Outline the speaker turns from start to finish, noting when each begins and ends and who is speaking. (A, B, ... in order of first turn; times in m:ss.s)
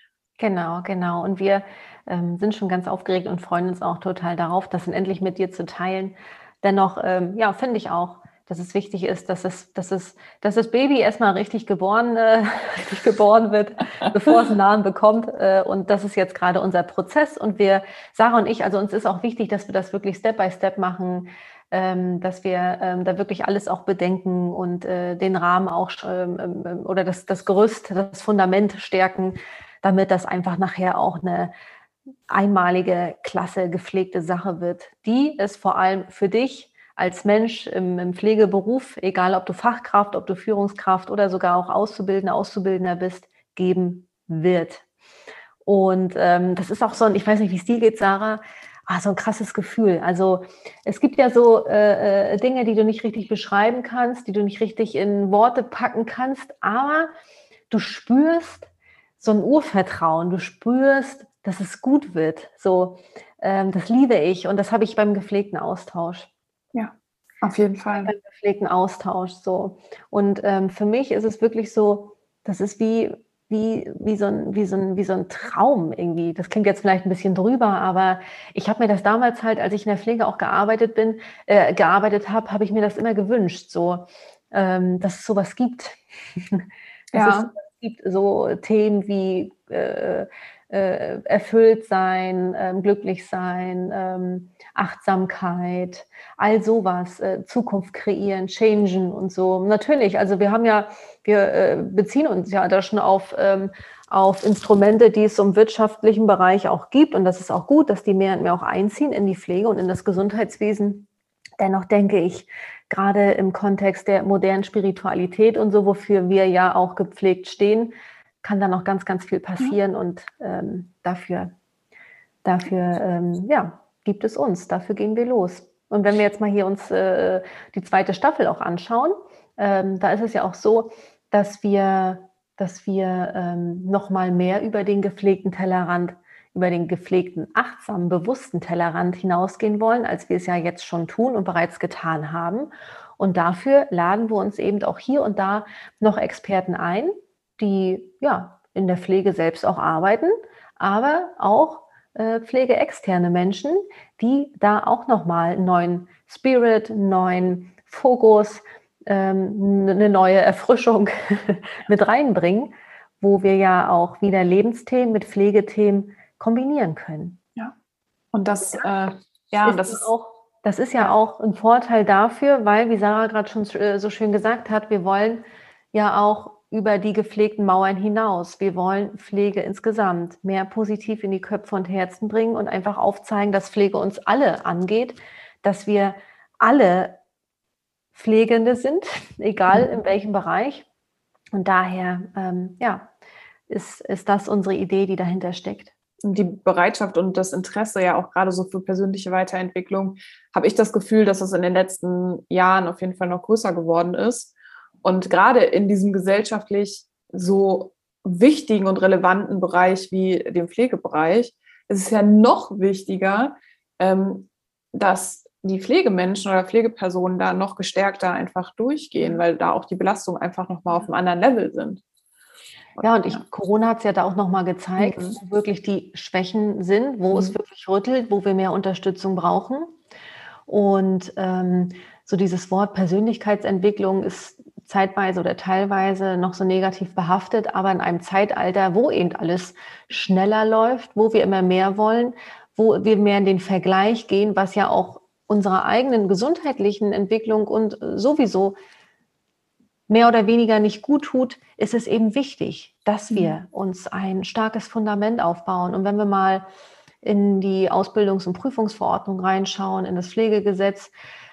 0:00.4-0:31.5 A
0:32.3-0:44.8 A
0:45.6-0:57.1 A
0:57.7-1:06.3 A
1:06.7-1:08.1 B
1:08.0-1:51.1 A
1:27.1-1:27.5 B
1:51.6-2:01.5 A
2:02.4-2:47.4 A
2:48.3-2:50.1 B
2:49.6-3:07.2 A
3:08.1-3:10.8 A
3:11.5-3:13.1 A
3:13.7-3:15.9 A
3:16.2-3:24.5 B
3:25.0-3:42.0 B
3:43.0-3:43.4 B
3:43.0-3:50.0 A
3:45.0-3:45.4 B
3:50.7-4:08.8 A
4:10.1-4:16.6 A
4:17.2-4:21.1 A